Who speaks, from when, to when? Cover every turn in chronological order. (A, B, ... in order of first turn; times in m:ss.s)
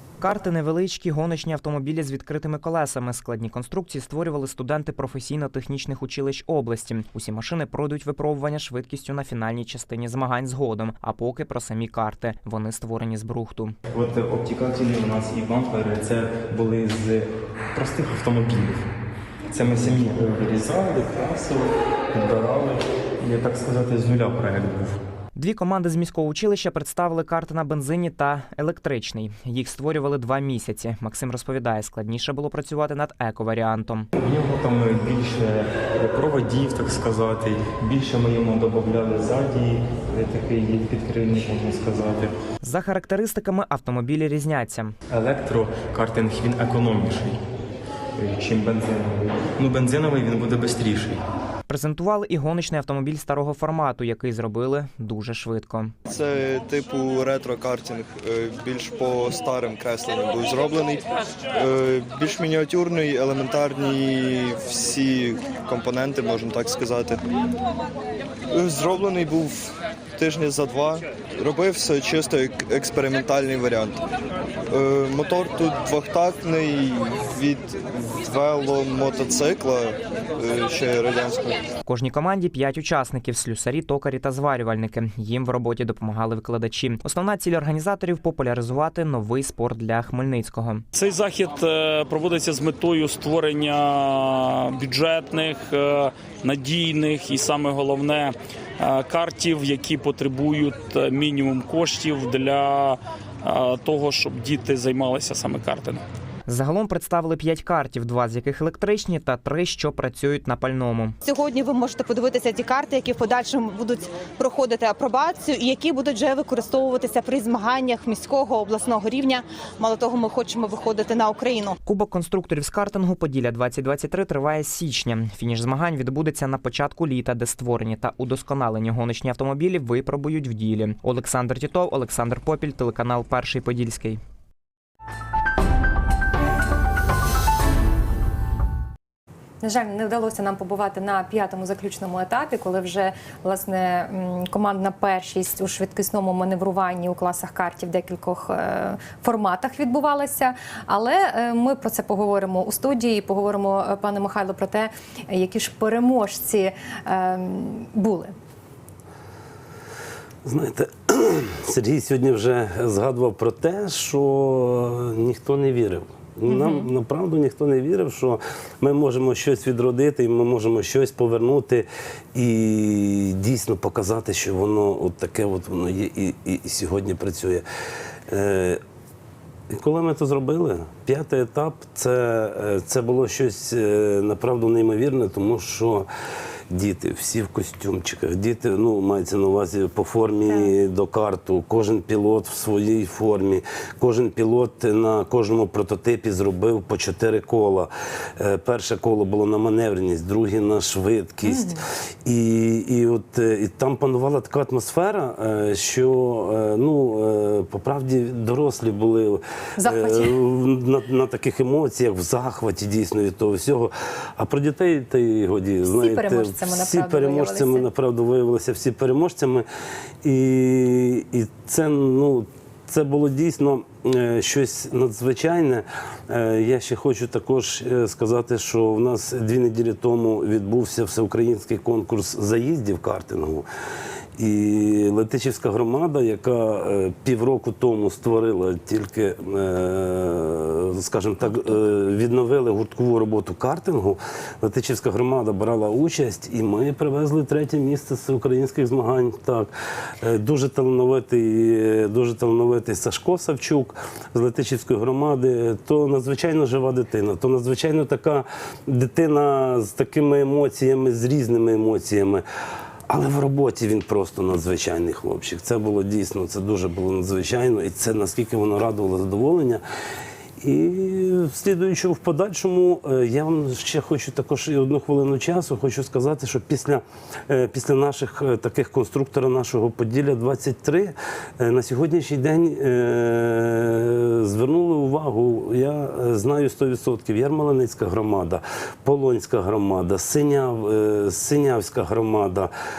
0:00.2-0:13.8 A
0:13.9-0:18.9 B
0:19.5-0:25.0 B
0:25.4-0:34.1 A
0:34.1-0:42.4 B
0:42.6-0:45.0 A
0:45.1-0:47.4 B
0:48.2-0:51.2 B
0:51.7-0:55.9 A
0:56.1-1:07.2 C
1:08.5-1:14.0 C
1:14.7-1:21.7 C
1:21.9-1:30.8 A
1:30.9-1:46.0 D
1:46.5-1:51.2 A
1:51.2-2:01.8 E
2:01.8-2:14.2 A
2:19.6-2:38.4 F
2:40.4-2:57.6 G
2:46.5-2:46.9 F
2:58.3-2:58.8 G
2:59.7-3:06.1 G
3:06.7-3:39.6 G
3:21.5-3:21.8 F
3:29.8-3:30.4 F
3:35.9-3:37.9 F
3:40.2-3:53.7 G
3:54.4-4:09.7 G
4:10.2-4:22.4 G
4:23.1-4:29.8 G
4:30.6-4:52.7 G